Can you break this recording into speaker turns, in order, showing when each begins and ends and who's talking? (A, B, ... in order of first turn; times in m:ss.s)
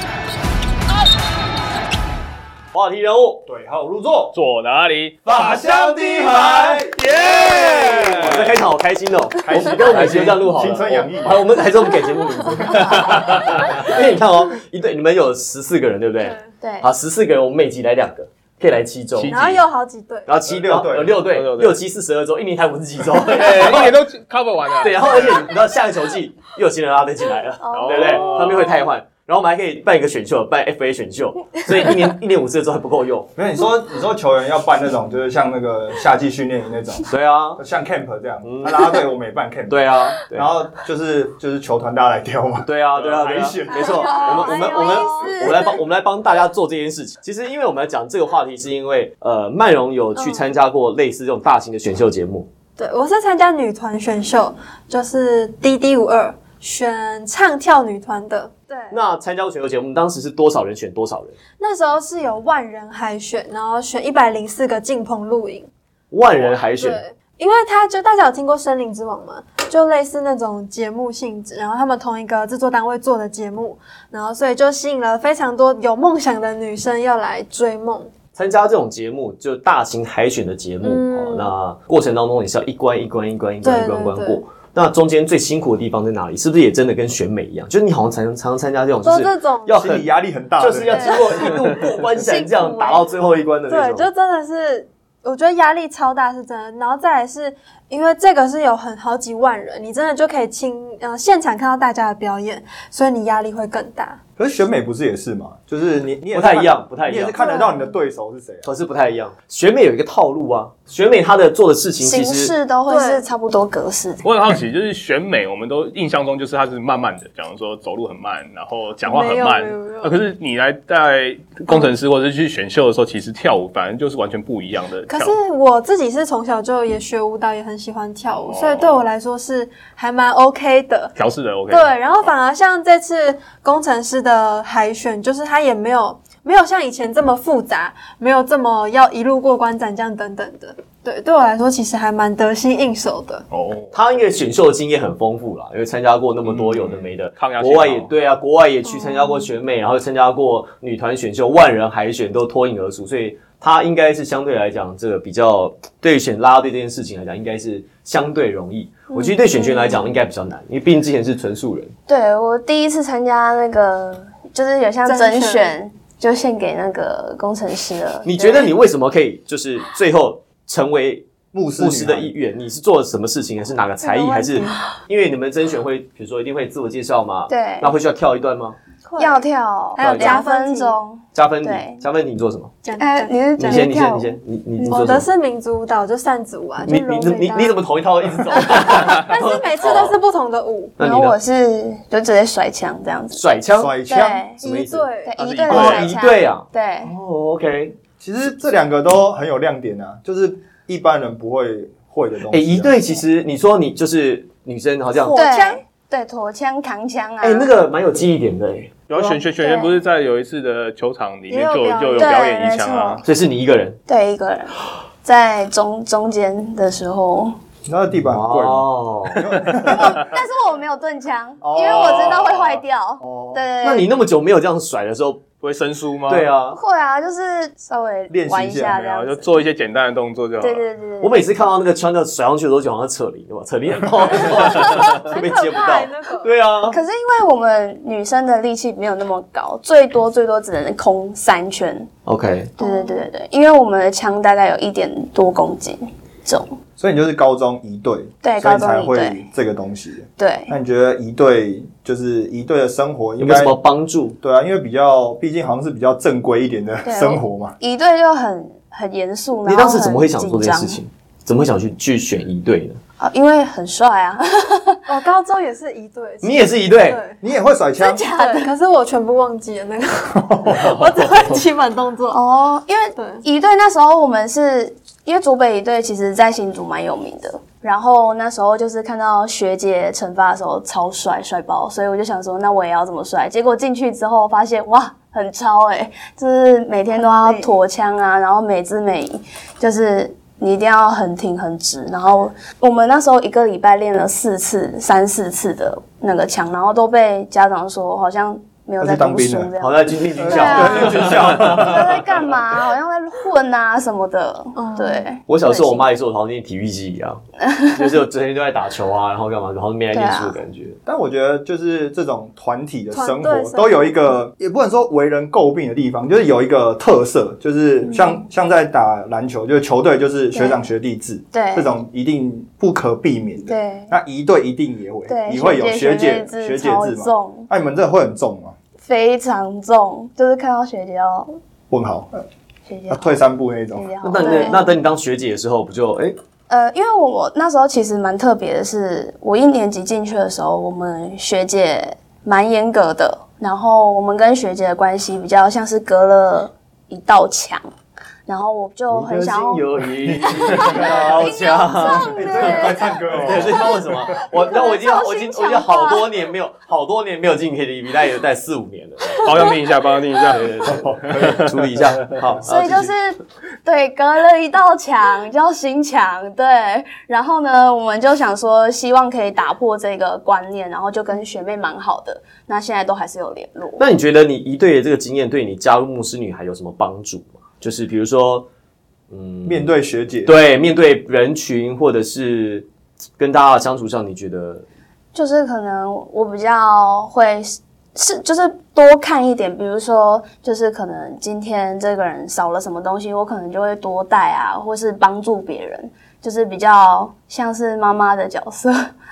0:02.7-0:03.4 A
0:03.4-0:04.3 B
0:04.3-0:05.4 C
0:05.2-0:06.9 A
0:05.3-0:08.5 B
0:06.8-0:08.6 C
0:08.1-0:19.4 A
0:09.4-0:11.5 B
0:09.8-0:10.4 C
0:12.7-0:13.9 C
0:16.6-0:16.9 D
0:19.1-0:19.6 C
0:19.3-0:20.3 E
0:20.3-0:24.0 A
0:20.5-0:21.2 B
0:21.2-0:21.8 C
0:23.2-0:25.4 C
0:24.8-0:33.3 A
0:27.6-0:28.9 D
0:27.7-0:28.7 C
0:33.3-0:43.7 B
0:37.1-0:37.6 A
0:38.4-0:39.1 A
0:39.7-0:40.5 A
0:42.6-0:52.5 A
0:43.0-0:43.7 C
0:43.7-0:45.6 E
0:43.8-0:45.8 D
0:50.1-0:50.5 E
0:52.8-0:59.0 E
0:58.9-1:01.4 A
1:01.6-1:05.7 E
1:06.1-1:07.0 A
1:06.7-1:18.1 E
1:18.4-1:34.1 A
1:20.8-1:21.5 E
1:23.6-1:24.4 E
1:29.0-1:29.7 E
1:29.7-1:31.2 B
1:30.9-1:31.5 D
1:31.1-1:33.0 E
1:33.7-1:44.2 E
1:44.4-1:48.7 B
1:46.3-1:47.4 A
1:47.3-1:48.0 E
1:48.6-1:52.5 A
1:52.0-1:54.2 D
1:52.9-1:53.3 E
1:54.2-2:05.4 C
1:59.0-2:00.2 E
2:05.1-2:11.1 E
2:08.3-2:09.0 C
2:11.2-2:11.9 C
2:11.7-2:23.4 E
2:23.5-2:23.9 C
2:23.9-2:41.9 A
2:26.5-2:28.1 C
2:28.8-2:29.5 E
2:39.1-2:40.1 D
2:42.1-2:48.7 D
2:45.0-2:45.7 E
2:48.2-2:58.8 A
2:51.5-2:52.3 B
2:54.0-2:54.7 E
2:57.5-2:57.9 D
2:59.0-3:01.0 E
2:59.2-3:02.0 D
3:00.0-3:00.4 A
3:01.3-3:02.8 A
3:02.8-3:03.9 E
3:03.0-3:04.4 D
3:03.6-3:05.3 A
3:04.8-3:07.8 E
3:06.8-3:10.2 A
3:08.5-3:11.0 E
3:08.9-3:09.2 C
3:11.0-3:11.4 A
3:11.0-3:13.4 D
3:13.3-3:14.0 A
3:13.8-3:14.4 B
3:14.0-3:14.6 D
3:14.6-3:15.4 E
3:14.6-3:18.0 A
3:15.2-3:17.1 D
3:15.7-3:16.1 C
3:18.2-3:23.2 B
3:22.5-3:25.4 A
3:25.1-3:25.8 E
3:25.3-3:27.7 D
3:27.4-3:29.3 A
3:29.1-3:33.2 C
3:29.5-3:30.0 D
3:31.5-3:32.5 E
3:32.2-3:33.2 D
3:33.2-3:34.0 A
3:34.1-3:37.6 D
3:37.8-3:40.3 B
3:38.2-3:39.4 A
3:39.9-3:44.1 D
3:41.6-3:42.4 B
3:41.8-3:42.8 C
3:43.2-3:43.6 B
3:43.8-3:45.5 A
3:45.6-3:46.5 C
3:46.3-3:46.8 A
3:46.7-3:49.7 D
3:48.3-3:49.0 B
3:48.9-3:50.8 C
3:50.6-3:51.4 D
3:51.2-3:57.0 A
3:54.7-3:56.5 E
3:54.7-3:55.1 D
3:56.9-4:02.1 D
4:02.2-4:02.8 A
4:02.8-4:06.8 D
4:02.8-4:03.2 E
4:07.0-4:13.8 B
4:08.4-4:09.4 D
4:10.4-4:10.7 D
4:13.4-4:14.4 A
4:14.4-4:17.7 B
4:17.0-4:21.0 D
4:19.6-4:23.0 A
4:23.2-4:25.0 D
4:25.1-4:27.4 E
4:26.4-4:27.2 A
4:27.4-4:28.3 B
4:28.0-4:28.7 D
4:28.3-4:32.4 E
4:30.4-4:31.1 B
4:32.3-5:06.1 D
4:33.2-4:33.4 E
4:47.1-4:47.7 E
4:59.0-4:59.7 B
4:59.8-5:02.3 A
5:00.4-5:02.2 B
5:04.8-5:05.3 E
5:05.5-5:11.0 A
5:07.6-5:08.2 D
5:10.1-5:10.6 D
5:11.0-5:28.7 B
5:13.1-5:14.3 E
5:18.0-5:18.4 D
5:21.5-5:21.9 D
5:23.6-5:24.1 D
5:25.3-5:27.7 D
5:29.0-5:31.5 D
5:31.9-5:32.4 B
5:32.9-5:33.4 D
5:33.1-5:34.1 B
5:33.9-5:34.8 D
5:34.2-5:36.3 A
5:34.4-5:34.9 E
5:36.7-5:47.8 D
5:48.5-5:56.3 D
5:49.1-5:59.7 A
5:50.2-5:51.5 B
5:52.1-5:53.9 B
5:59.4-6:01.7 C
6:00.5-6:03.1 A
6:01.0-6:01.7 B
6:02.6-6:14.0 D
6:14.0-6:18.7 A
6:19.3-6:24.8 A
6:19.6-6:20.5 B
6:25.3-6:39.0 D